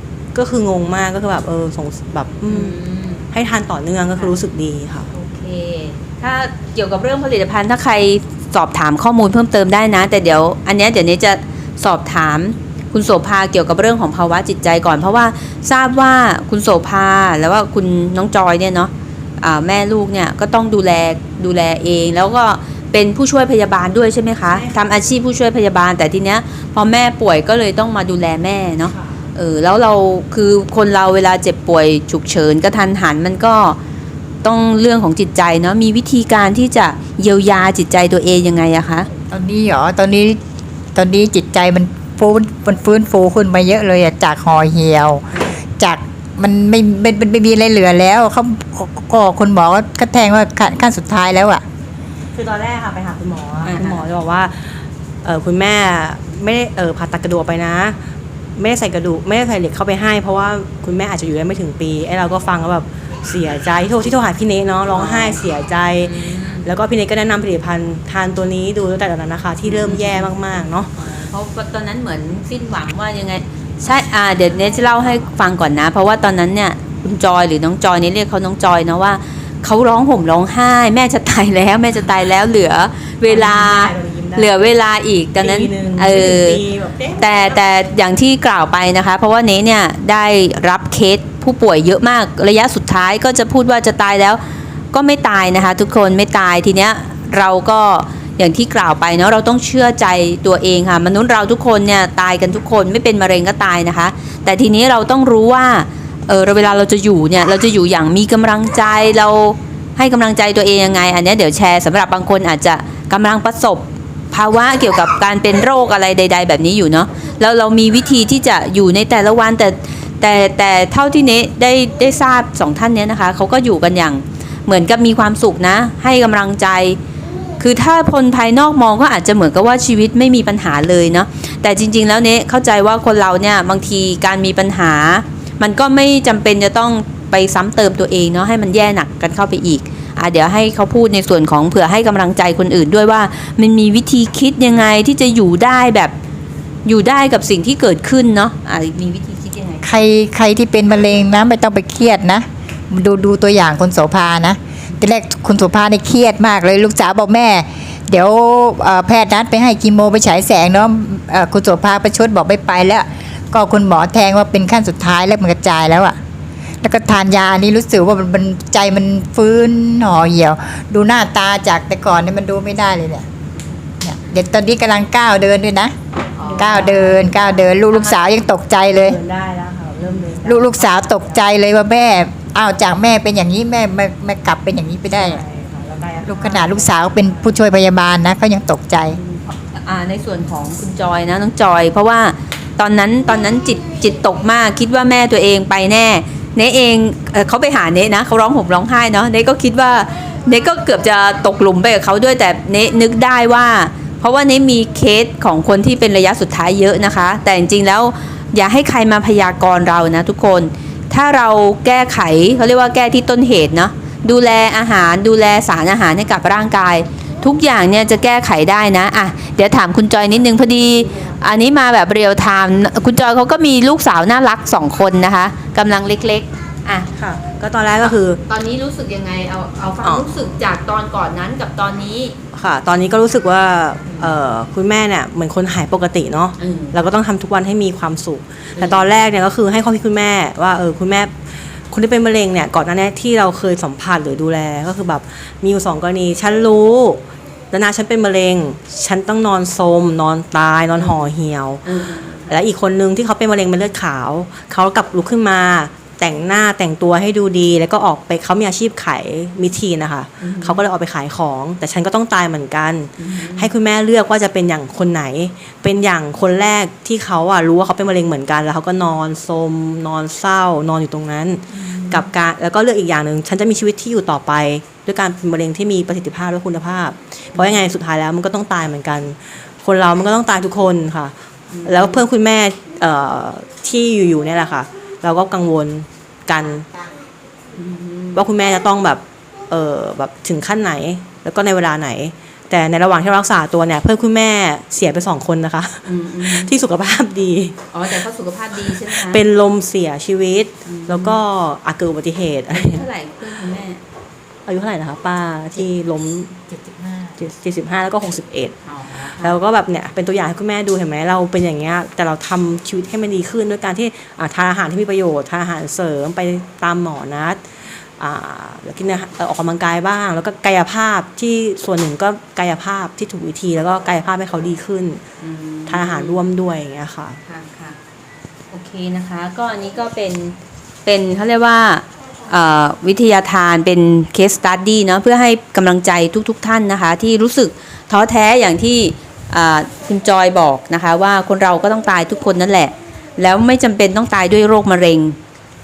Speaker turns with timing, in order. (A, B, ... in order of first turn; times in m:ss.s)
0:00.3-0:02.8 A
0:02.5-0:03.3 B
0:03.3-0:05.1 A
0:05.1-0:33.8 B
0:24.5-0:24.8 A
0:28.9-0:29.2 A
0:34.4-0:39.1 B
0:39.3-0:40.4 C
0:41.0-0:51.6 C
0:45.3-0:45.6 B
0:52.3-0:58.0 A
0:53.6-0:54.1 B
0:58.6-1:11.3 A
1:04.9-1:05.4 B
1:06.0-1:06.7 B
1:09.7-1:10.3 B
1:11.0-1:26.6 B
1:23.2-1:24.7 A
1:25.4-1:27.6 A
1:27.2-2:07.0 B
2:07.6-2:26.1 B
2:26.8-2:29.9 B
2:29.8-2:46.2 C
2:46.8-2:53.3 C
2:54.0-2:56.0 C
2:56.4-2:58.5 B
2:56.4-2:57.4 A
2:56.6-2:59.2 C
2:58.9-3:01.3 A
3:00.0-3:00.5 B
3:00.4-3:05.4 C
3:05.1-3:07.6 A
3:06.2-3:09.2 C
3:09.1-3:47.1 B
3:40.4-3:41.4 A
3:47.1-3:48.4 A
3:48.5-3:52.4 B
3:50.0-3:50.3 A
3:52.5-4:11.9 A
3:54.1-3:54.4 B
3:56.6-3:57.0 B
3:58.8-3:59.1 B
4:11.0-4:11.3 B
4:11.8-4:12.5 B
4:12.5-4:41.3 A
4:20.4-4:20.8 B
4:23.2-4:23.7 B
4:31.7-4:32.3 B
4:37.6-4:37.8 B
4:41.7-4:42.2 B
4:41.8-4:46.9 A
4:46.9-4:47.1 C
4:47.8-4:48.4 B
4:48.4-4:58.2 A
4:56.0-4:56.7 B
4:57.9-4:59.4 B
4:58.8-5:03.1 A
5:00.9-5:01.4 B
5:02.7-5:04.0 B
5:04.7-5:06.6 A
5:06.7-5:07.4 C
5:07.4-5:17.7 A
5:08.8-5:09.6 B
5:18.2-5:25.2 A
5:25.4-5:26.4 B
5:25.9-5:27.4 A
5:27.4-5:28.0 B
5:28.7-5:45.4 B